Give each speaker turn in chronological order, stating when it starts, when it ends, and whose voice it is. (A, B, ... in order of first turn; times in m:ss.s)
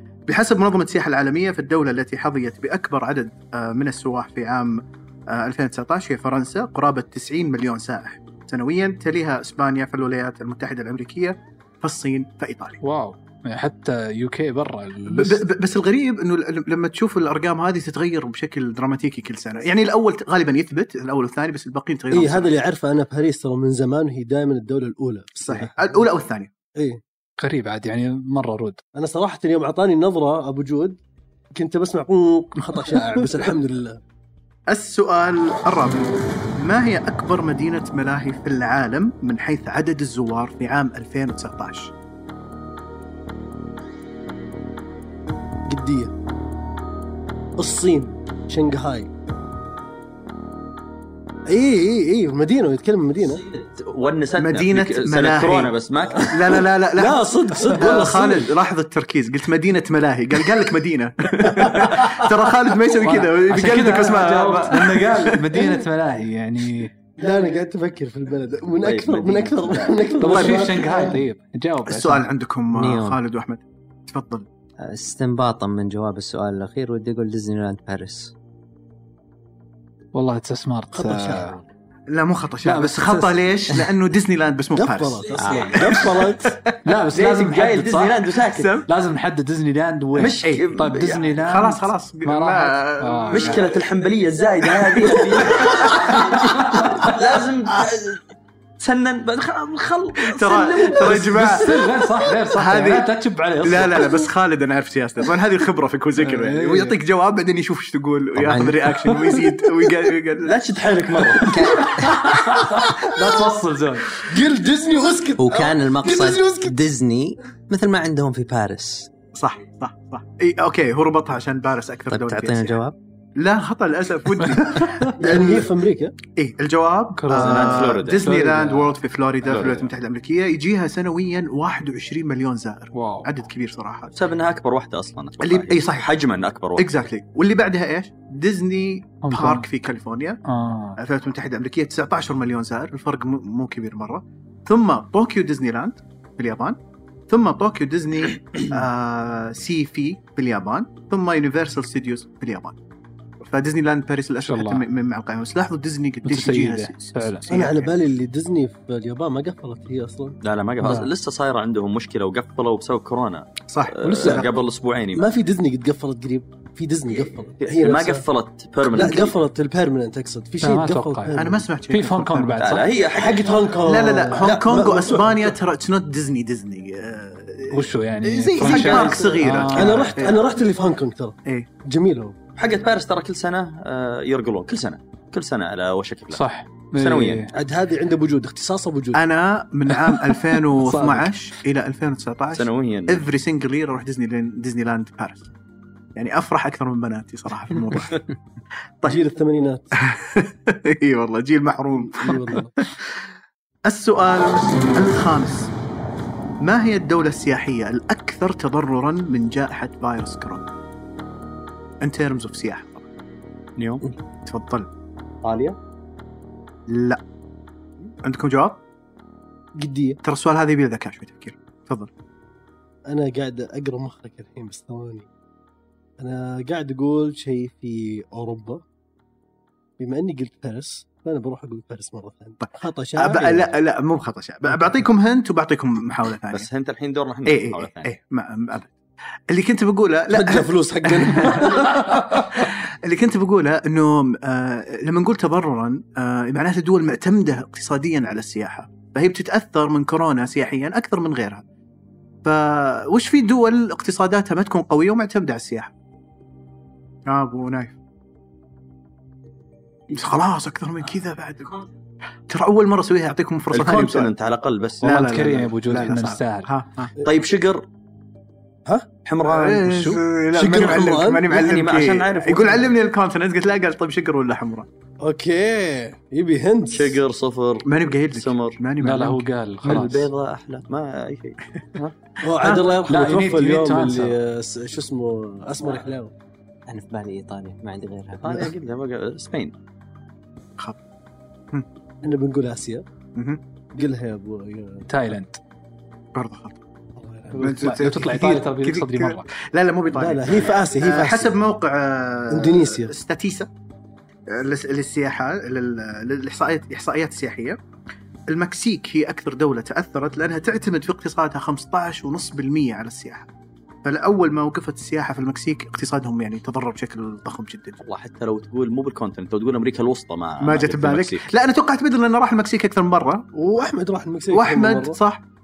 0:00.3-0:12.8 A
0:12.8-0:15.4 B
0:15.1-0:22.5 A
0:22.1-0:26.0 C
0:25.4-0:26.5 A
0:27.4-0:28.8 B
0:29.0-0:31.0 C
0:31.5-0:34.0 C
0:34.7-0:41.9 A
0:45.7-0:46.1 C
0:47.6-0:49.1 C
0:51.5-0:53.4 C
0:53.4-0:56.4 D
0:54.4-1:05.5 A
0:57.0-0:58.5 C
1:01.5-1:02.0 C
1:03.0-1:06.9 B
1:07.2-1:11.2 C
1:08.8-1:10.1 D
1:10.2-1:12.2 B
1:10.3-1:10.6 A
1:11.9-1:14.5 A
1:12.7-1:13.2 E
1:14.8-1:18.3 E
1:20.1-1:21.5 B
1:20.9-1:21.7 C
1:22.1-1:26.8 A
1:22.6-1:23.4 B
1:24.8-1:26.6 C
1:25.4-1:25.9 D
1:26.8-1:28.2 B
1:27.1-1:28.7 D
1:28.5-1:28.9 A
1:28.9-1:33.7 B
1:30.2-1:31.4 D
1:31.4-1:33.7 A
1:33.3-1:38.2 D
1:34.9-1:36.8 A
1:36.2-1:37.1 B
1:38.8-1:41.6 D
1:40.2-1:41.8 A
1:41.0-1:44.2 B
1:42.5-1:43.1 A
1:43.6-1:50.6 A
1:46.2-1:47.0 B
1:48.4-1:48.9 E
1:50.4-1:51.8 D
1:51.4-1:52.2 E
1:51.9-1:54.2 B
1:54.2-1:56.8 C
1:55.4-1:59.1 E
1:59.3-2:02.8 A
2:02.1-2:03.0 E
2:03.4-2:05.7 A
2:04.4-2:05.1 B
2:05.2-2:06.2 C
2:06.3-2:14.1 A
2:07.2-2:09.0 B
2:07.3-2:08.2 D
2:09.5-2:09.9 D
2:12.9-2:13.3 B
2:14.1-2:16.9 D
2:15.4-2:16.1 A
2:16.8-2:20.4 A
2:19.2-2:19.7 B
2:20.5-2:21.0 B
2:21.0-2:32.8 A
2:33.4-2:37.9 A
2:34.4-2:34.8 B
2:36.2-2:37.4 B
2:37.5-2:40.4 C
2:40.4-2:45.3 D
2:43.7-2:44.5 A
2:44.0-2:44.5 C
2:45.2-2:48.2 C
2:47.2-2:49.4 D
2:48.9-2:51.6 C
2:50.6-2:51.4 B
2:51.4-2:52.8 A
2:51.9-2:52.9 B
2:52.6-2:53.8 D
2:53.1-2:55.6 C
2:53.8-3:00.4 A
2:57.7-3:00.2 B
2:58.6-2:59.0 D
2:58.6-3:02.4 C
3:02.6-3:07.5 D
3:06.3-3:07.5 B
3:07.5-3:09.2 C
3:09.1-3:15.5 A
3:10.0-3:11.3 B
3:12.5-3:13.2 D
3:16.2-3:18.2 A
3:19.0-3:19.9 C
3:20.0-3:22.6 A
3:22.1-3:22.7 C
3:23.9-3:25.7 A
3:26.6-3:30.7 A
3:32.0-3:33.1 A
3:33.8-3:34.0 D
3:34.5-3:34.9 A
3:35.5-3:35.7 C
3:36.9-3:37.2 A
3:38.2-3:38.8 A
3:39.8-3:40.2 C
3:40.2-3:42.1 A
3:43.1-3:45.3 C
3:46.2-3:48.8 C
3:50.0-3:53.7 C
3:52.6-3:56.7 A
3:56.5-3:58.1 D
3:57.5-3:59.0 A
3:59.5-4:11.6 A
4:00.3-4:02.6 C
4:12.4-4:15.9 A
4:17.3-4:18.0 A
4:20.1-4:21.8 A
4:22.5-4:24.3 A
4:23.7-4:25.2 D
4:25.0-4:26.7 B
4:25.0-4:27.1 A
4:27.2-4:27.8 D
4:29.2-4:30.0 D
4:29.4-4:34.9 A
4:29.9-4:30.2 B
4:30.5-4:31.5 C
4:31.5-4:32.9 D
4:35.2-4:37.2 C
4:36.9-4:38.8 D
4:37.8-4:39.4 A
4:39.0-4:40.3 B
4:39.8-4:42.2 D
4:42.4-4:46.3 C
4:42.6-4:42.9 A
4:43.0-4:44.4 B
4:46.9-4:48.7 E
4:48.4-4:49.7 D
4:52.2-4:53.0 C
4:53.4-4:53.6 A
4:53.9-4:55.1 C
4:55.1-4:55.6 B
4:56.4-4:56.8 A
4:57.2-4:57.8 C
4:57.6-4:59.5 B
4:57.6-5:03.7 A
5:00.1-5:01.5 C
5:02.5-5:03.1 C
5:04.5-5:07.8 A
5:08.5-5:13.5 A
5:14.0-5:18.0 A
5:18.0-5:21.5 D
5:20.6-5:23.5 A
5:23.5-5:25.2 C
5:24.5-5:25.4 A